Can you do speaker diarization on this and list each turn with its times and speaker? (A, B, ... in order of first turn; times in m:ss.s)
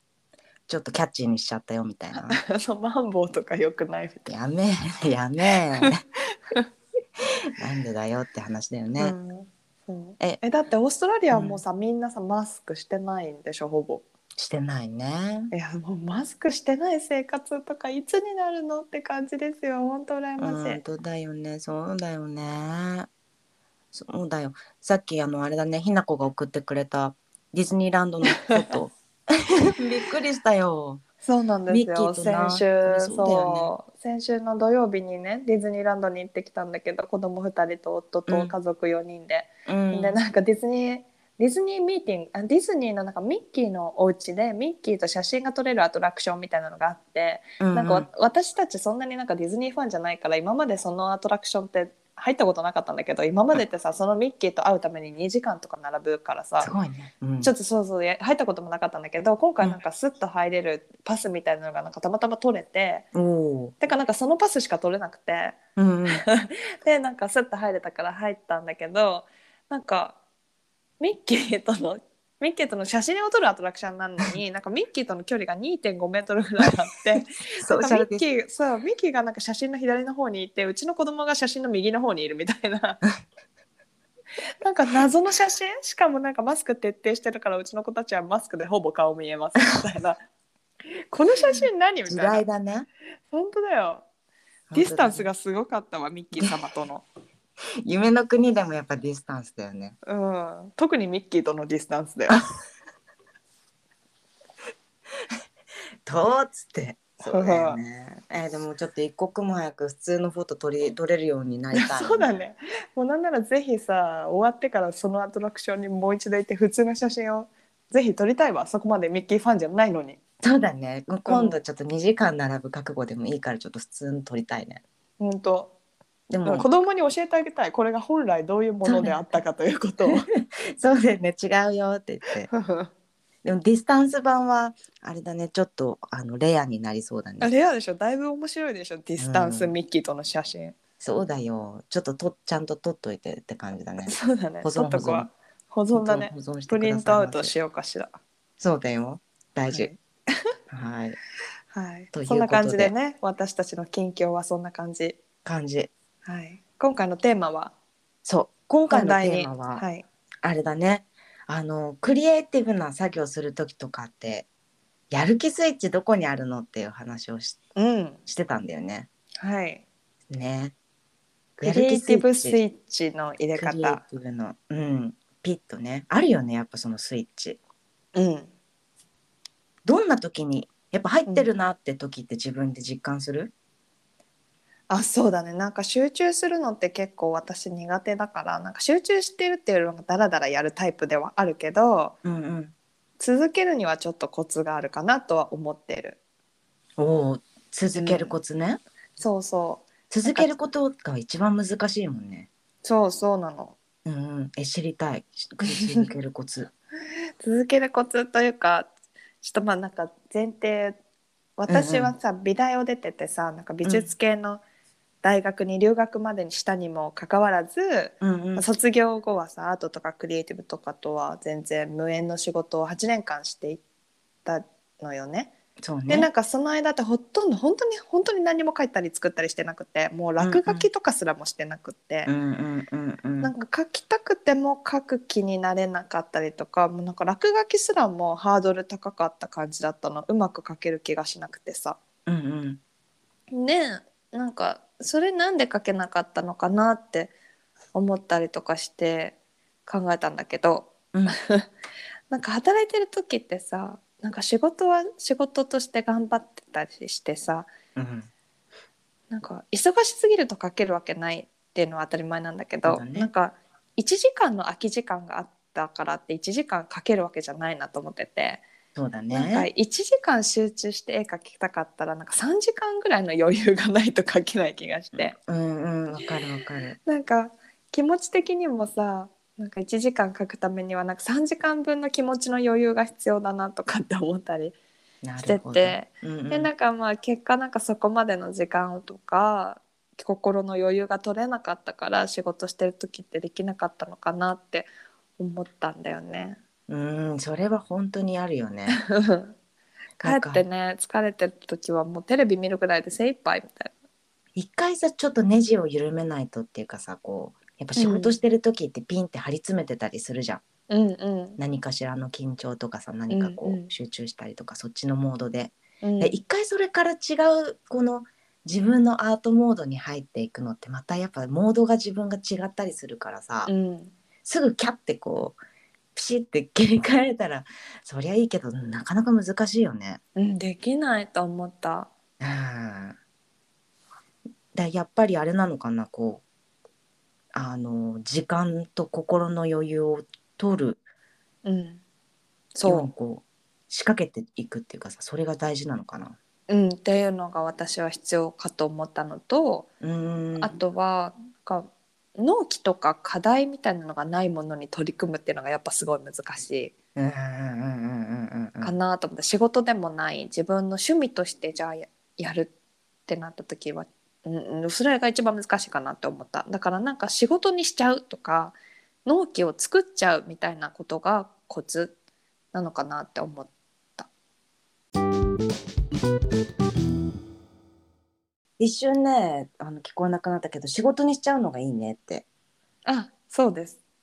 0:00.7-0:02.4 A
0:02.2-0:04.3 B
0:04.3-0:06.0 A
0:07.6-0:09.2 A
0:09.0-0:14.0 B
0:11.3-0:11.6 A
0:14.4-0:15.5 A
0:15.5-0:20.8 B
0:20.4-0:23.1 A
0:23.9-0:31.0 A
0:31.2-0:56.7 B
0:31.7-0:33.7 A
0:38.3-0:38.5 A
0:39.7-0:40.2 A
0:47.6-0:48.1 A
0:56.6-0:57.5 A
0:57.4-1:03.1 B
1:03.1-1:03.8 A
1:03.8-1:05.6 B
1:05.8-1:06.2 A
1:06.1-1:10.2 B
1:11.0-1:23.0 B
1:17.6-1:18.3 A
1:24.6-1:30.2 B
1:31.1-1:32.4 B
1:31.4-1:32.9 A
1:33.3-1:34.0 B
1:34.7-1:35.3 A
1:34.7-1:37.0 B
1:37.8-1:40.0 A
1:40.1-1:42.4 B
1:46.0-1:52.4 A
1:47.2-1:47.8 B
1:51.7-2:00.2 B
2:00.4-2:04.8 A
2:01.2-2:01.6 B
2:05.2-2:05.7 B
2:06.3-2:06.7 A
2:06.4-2:10.3 B
2:08.8-2:09.2 A
2:10.1-2:12.5 A
2:12.5-2:12.9 B
2:13.4-2:17.5 A
2:17.4-2:20.8 B
2:19.2-2:19.7 A
2:21.0-2:25.3 A
2:24.0-2:28.2 B
2:25.9-2:27.5 A
2:28.6-2:29.9 A
2:29.7-2:30.0 B
2:30.7-2:31.2 A
2:31.7-2:35.2 B
2:32.1-2:32.9 A
2:35.4-2:35.9 A
2:36.2-2:37.7 B
2:38.2-2:39.8 A
2:38.9-2:40.0 B
2:40.4-2:44.5 A
2:45.1-2:47.6 A
2:47.8-2:48.2 B
2:48.3-2:49.1 A
2:49.4-2:49.8 B
2:50.3-2:50.8 A
2:51.6-2:52.6 A
2:51.6-2:54.0 B
2:53.6-2:57.6 A
2:58.1-2:58.5 B
2:59.8-3:03.5 A
3:04.9-3:12.2 B
3:12.2-3:12.7 A
3:13.2-3:16.2 B
3:17.0-3:18.8 A
3:17.9-3:18.4 B
3:19.2-3:20.5 B
3:20.1-3:22.5 A
3:22.8-3:23.8 B
3:24.0-3:26.7 A
3:25.6-3:26.1 B
3:27.4-3:28.9 B
3:29.4-3:31.0 B
3:31.6-3:34.6 B
3:31.7-3:32.2 A
3:33.8-3:34.1 A
3:35.2-3:43.8 B
3:38.2-3:38.7 A
3:44.4-3:45.5 B
3:45.8-3:46.3 A
3:46.1-3:52.3 B
3:50.4-3:50.9 A
3:52.3-3:53.5 A
3:53.4-4:02.0 B
4:02.3-4:02.8 A
4:03.5-4:07.3 B
4:07.9-4:11.7 B
4:12.3-4:17.7 B
4:18.0-4:18.3 A
4:19.3-4:28.6 B
4:22.8-4:23.3 A
4:29.0-4:29.7 A
4:29.3-4:35.4 B
4:35.2-4:37.0 A
4:37.1-4:44.8 B
4:45.2-4:46.7 A
4:45.4-4:56.6 B
4:56.9-4:59.0 A
4:59.0-4:59.6 B
5:00.2-5:00.6 A
5:00.2-5:03.9 B
5:04.6-5:10.6 A
5:08.0-5:08.4 B
5:10.9-5:11.6 B
5:11.6-5:23.7 A
5:13.3-5:13.9 B
5:16.0-5:16.4 B
5:23.7-5:24.1 B
5:24.4-5:25.6 A
5:26.2-5:30.2 A
5:30.4-5:32.1 B
5:32.4-5:33.2 A
5:34.7-5:36.4 A
5:37.5-5:41.0 A
5:41.6-5:42.0 B
5:42.8-5:43.1 B
5:42.8-5:46.4 A
5:46.7-5:49.9 B
5:50.0-5:50.8 A
5:50.6-5:56.9 B
5:57.2-5:58.9 A
5:58.8-6:02.7 B
6:03.3-6:12.2 B
6:12.7-6:14.3 B
6:18.8-6:22.4 A
6:23.1-6:24.0 B